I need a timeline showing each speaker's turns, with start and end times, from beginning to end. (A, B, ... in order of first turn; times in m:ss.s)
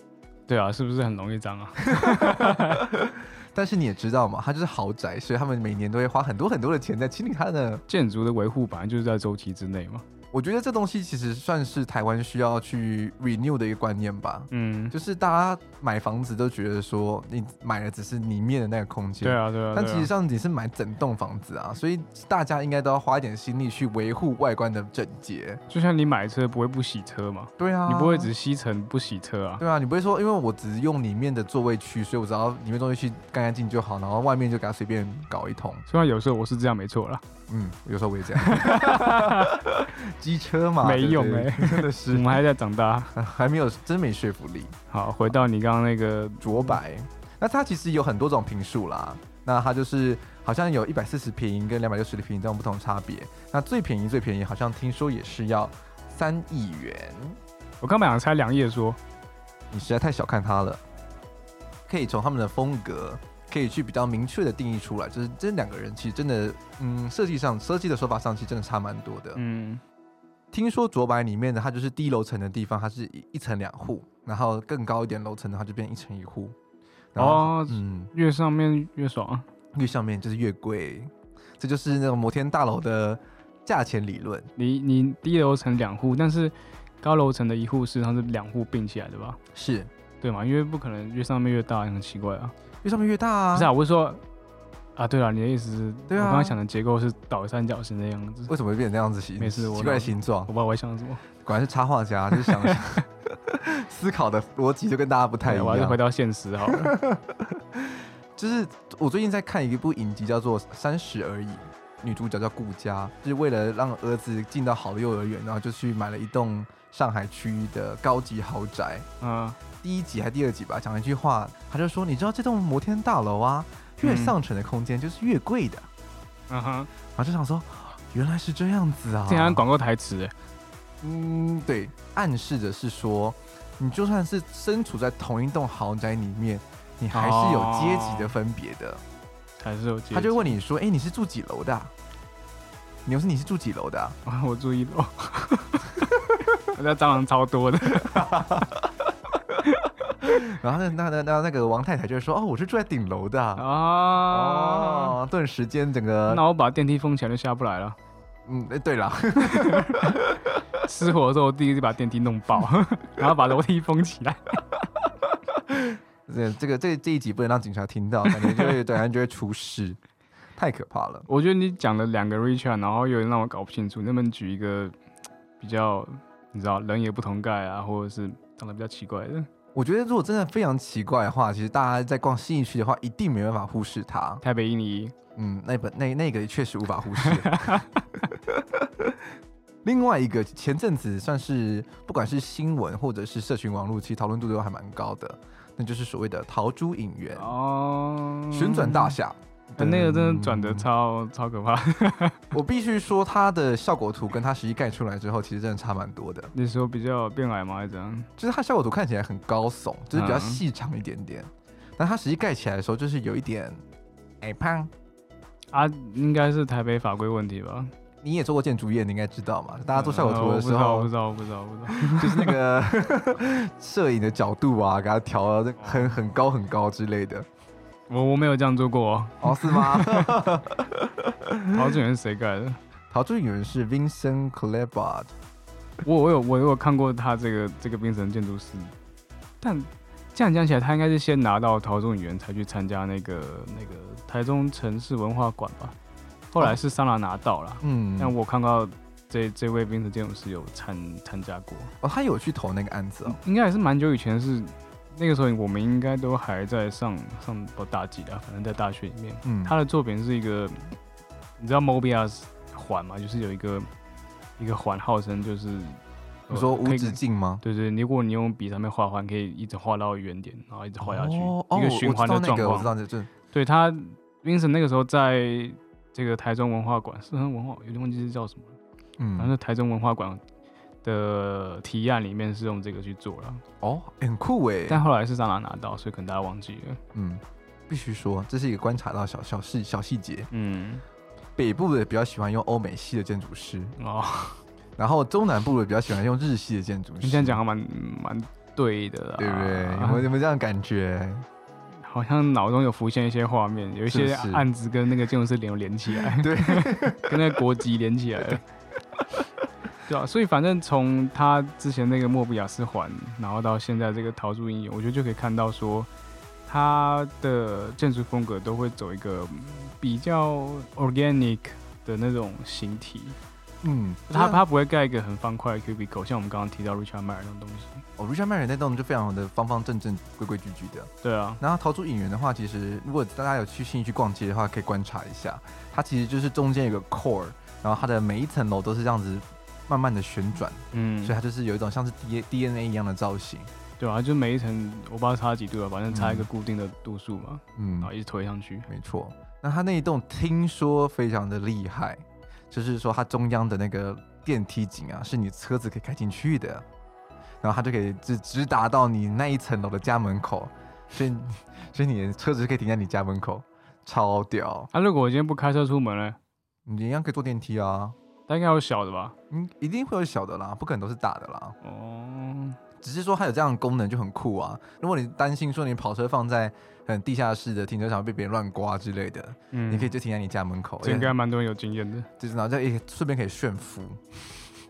0:00.5-0:02.9 A
0:01.8-0:07.8 B
0:07.9-0:10.0 A
0:10.3-0:25.6 B
0:14.5-0:15.0 A
0:19.2-0:20.1 A
0:25.7-0:29.6 A
0:27.6-0:28.3 B
0:29.6-0:35.9 B
0:35.9-0:37.2 A
0:37.5-0:42.4 B
0:38.4-0:39.6 A
0:40.8-0:43.1 A
0:43.1-0:44.8 B
0:44.9-0:46.8 A
0:46.4-0:57.4 B
0:57.8-0:59.0 A
0:59.7-1:00.8 B
1:01.9-1:09.4 B
1:09.4-1:09.8 A
1:10.5-1:16.6 B
1:17.2-1:18.1 B
1:17.2-1:19.5 A
1:19.7-1:24.5 B
1:24.6-1:29.4 A
1:29.5-1:29.9 B
1:30.2-1:32.5 A
1:32.8-1:33.7 B
1:33.5-1:34.2 A
1:35.0-1:38.5 A
1:36.1-1:36.6 B
1:38.5-1:40.5 B
1:39.4-1:41.2 A
1:41.4-1:46.0 B
1:42.3-1:42.8 A
1:45.4-1:46.9 A
1:46.7-1:59.1 B
1:59.2-1:59.6 A
1:59.8-2:05.9 B
2:04.0-2:04.4 A
2:06.5-2:06.9 A
2:07.2-2:09.6 B
2:09.3-2:10.3 A
2:11.0-2:19.0 B
2:17.1-2:18.4 A
2:19.6-2:20.6 A
2:20.1-2:21.9 B
2:23.1-2:24.2 B
2:24.2-2:26.1 A
2:26.7-2:28.5 A
2:28.0-2:29.0 B
2:30.2-2:33.7 B
2:33.6-2:35.2 A
2:34.2-2:36.4 B
2:36.3-2:38.0 A
2:38.5-2:40.6 B
2:39.4-2:40.2 A
2:40.8-2:44.6 A
2:45.7-2:50.0 B
2:48.3-2:48.7 A
2:50.6-2:51.3 B
2:51.3-2:55.0 A
2:55.6-2:59.5 A
2:59.8-3:04.4 B
3:04.4-3:05.2 A
3:05.4-3:09.2 B
3:07.2-3:07.9 A
3:09.8-3:17.5 B
3:17.4-3:19.2 A
3:18.5-3:20.9 B
3:19.8-3:22.5 A
3:22.5-3:26.5 B
3:26.5-3:28.3 A
3:28.4-3:33.8 B
3:30.1-3:30.6 A
3:34.4-3:34.9 B
3:35.7-3:37.9 A
3:38.2-3:41.1 B
3:39.9-3:42.6 A
3:41.9-3:47.5 B
3:45.8-3:46.2 A
3:48.1-3:50.4 A
3:49.4-3:51.8 B
3:51.7-3:52.8 A
3:53.1-3:55.3 B
3:56.0-3:58.9 A
3:59.6-4:06.0 A
4:06.5-4:11.9 A
4:07.8-4:08.4 B
4:12.0-4:13.4 B
4:13.3-4:21.0 A
4:19.4-4:19.8 B
4:21.6-4:23.9 A
4:24.6-4:32.9 A
4:26.5-4:27.6 B
4:31.0-4:33.3 B
4:33.5-4:38.8 A
4:39.2-4:39.5 B
4:39.4-4:40.4 A
4:41.0-4:43.6 A
4:43.8-4:45.0 B
4:44.9-4:47.0 A
4:47.1-4:50.5 B
4:50.5-4:51.0 A
4:51.6-4:54.0 B
4:54.0-4:54.6 A
4:55.0-4:57.6 B
4:57.2-5:00.3 A
4:59.4-5:01.5 B
5:02.0-5:08.6 A
5:04.1-5:04.7 B
5:06.2-5:07.6 B
5:10.1-5:16.1 A
5:16.7-5:23.4 A
5:23.8-5:24.6 B
5:24.3-5:28.0 A
5:28.2-5:31.1 B
5:31.2-5:31.6 A
5:31.6-5:43.7 B
5:40.9-5:41.4 A
5:44.0-5:48.9 A
5:46.1-5:46.5 B
5:47.8-5:48.1 B
5:48.9-5:56.8 B
5:57.6-6:04.9 B
6:04.9-6:06.4 A
6:06.9-6:08.2 B
6:08.5-6:09.4 A
6:09.5-6:11.8 B
6:11.8-6:12.8 A
6:13.0-6:21.3 B
6:19.7-6:20.1 A
6:21.0-6:22.3 A
6:22.4-6:24.4 B